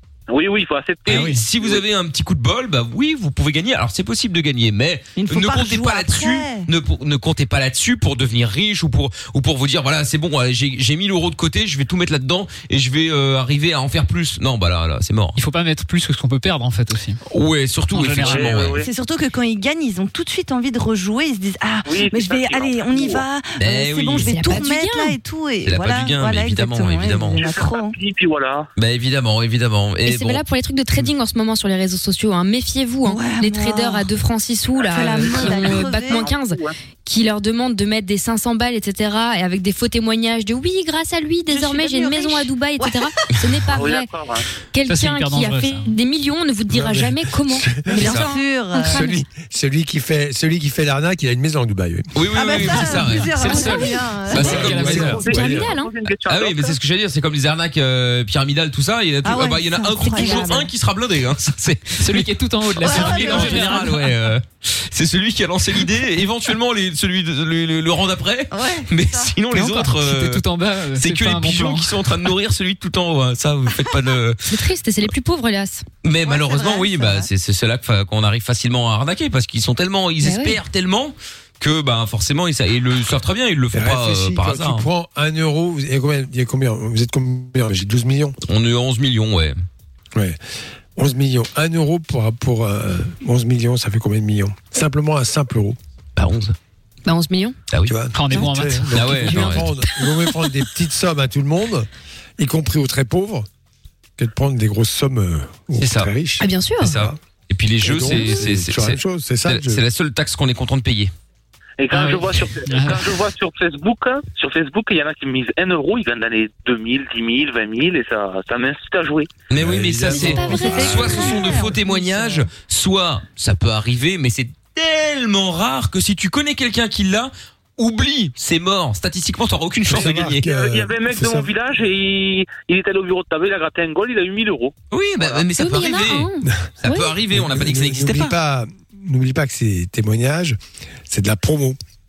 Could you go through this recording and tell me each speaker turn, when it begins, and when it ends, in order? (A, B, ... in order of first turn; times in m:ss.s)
0:00.3-0:01.8 A
0:01.0-0:01.4 B
0:01.0-0:15.4 C
0:05.2-0:06.7 D
0:15.4-0:17.2 B
0:17.3-0:18.8 C
0:17.9-0:18.7 B
0:18.2-0:18.9 A
0:18.8-0:28.0 D
0:21.8-0:23.2 A
0:23.6-0:24.3 C
0:24.3-0:25.2 E
0:25.6-0:27.4 C
0:27.3-0:28.7 A
0:28.8-0:30.4 C
0:30.0-0:44.1 E
0:33.0-0:34.1 D
0:34.8-0:36.3 D
0:34.9-0:36.7 A
0:41.5-0:43.3 D
0:43.3-0:43.7 C
0:43.7-0:44.4 A
0:44.7-0:48.3 E
0:44.8-0:45.9 B
0:46.7-0:48.2 F
0:47.8-0:49.2 D
0:48.0-0:48.3 C
0:48.7-0:52.1 F
0:52.1-0:55.2 C
0:52.3-0:54.6 D
0:53.0-0:55.3 B
0:54.3-0:55.7 F
0:55.0-0:56.8 A
0:55.3-0:55.9 E
0:56.2-1:10.4 C
0:59.2-1:00.7 D
1:00.1-1:00.5 E
1:02.0-1:03.9 B
1:02.8-1:04.0 D
1:08.5-1:09.3 D
1:09.5-1:11.9 B
1:10.9-1:14.6 C
1:14.5-1:15.8 E
1:16.0-1:24.8 C
1:16.2-1:17.3 D
1:20.2-1:20.6 E
1:23.7-1:28.4 F
1:28.5-1:29.5 C
1:31.0-1:35.8 F
1:36.2-1:36.5 C
1:37.0-1:37.6 E
1:37.7-1:39.7 C
1:37.8-1:43.5 F
1:38.1-1:39.6 B
1:44.2-1:47.2 F
1:45.8-1:46.1 C
1:46.4-1:47.0 E
1:46.8-1:51.1 C
1:47.8-1:49.8 F
1:48.1-1:48.4 E
1:51.8-1:59.4 A
1:51.9-1:53.2 B
1:59.5-2:10.5 C
1:59.5-2:01.4 F
2:00.1-2:01.6 E
2:00.1-2:02.5 D
2:09.8-2:11.6 F
2:10.4-2:15.4 A
2:14.9-2:16.3 C
2:15.5-2:17.2 E
2:16.8-2:18.3 C
2:17.3-2:21.8 F